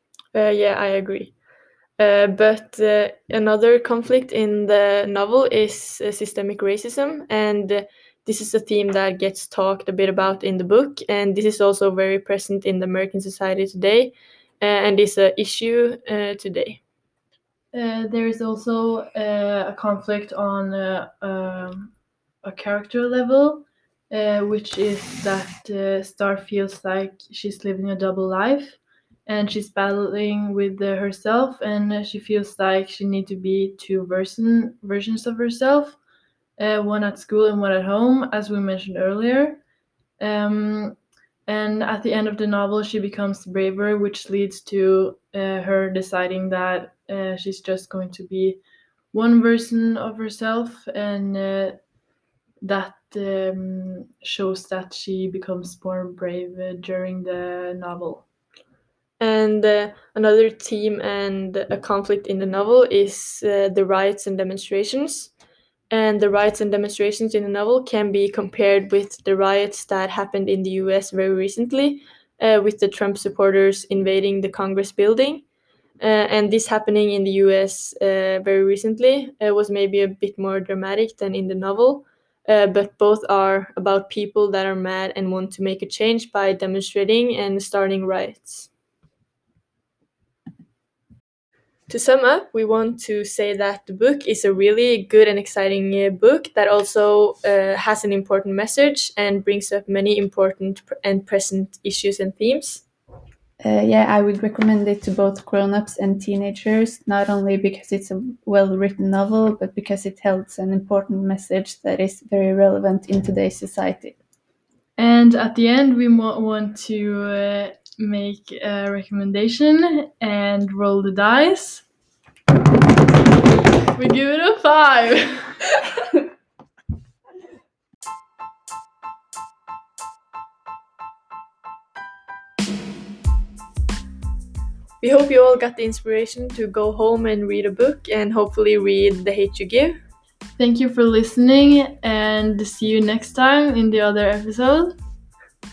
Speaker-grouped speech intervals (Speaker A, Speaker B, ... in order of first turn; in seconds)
Speaker A: 0.3-1.3, 2.0-16.8, 59.2-65.3, 65.9-75.5, 76.0-88.7, 91.9-102.8, 135.0-140.0
Speaker B: 17.7-36.0, 36.6-39.6, 40.2-48.6, 49.1-51.8, 52.6-58.2, 115.0-121.8, 123.9-125.6, 140.6-144.9
Speaker C: 103.6-114.2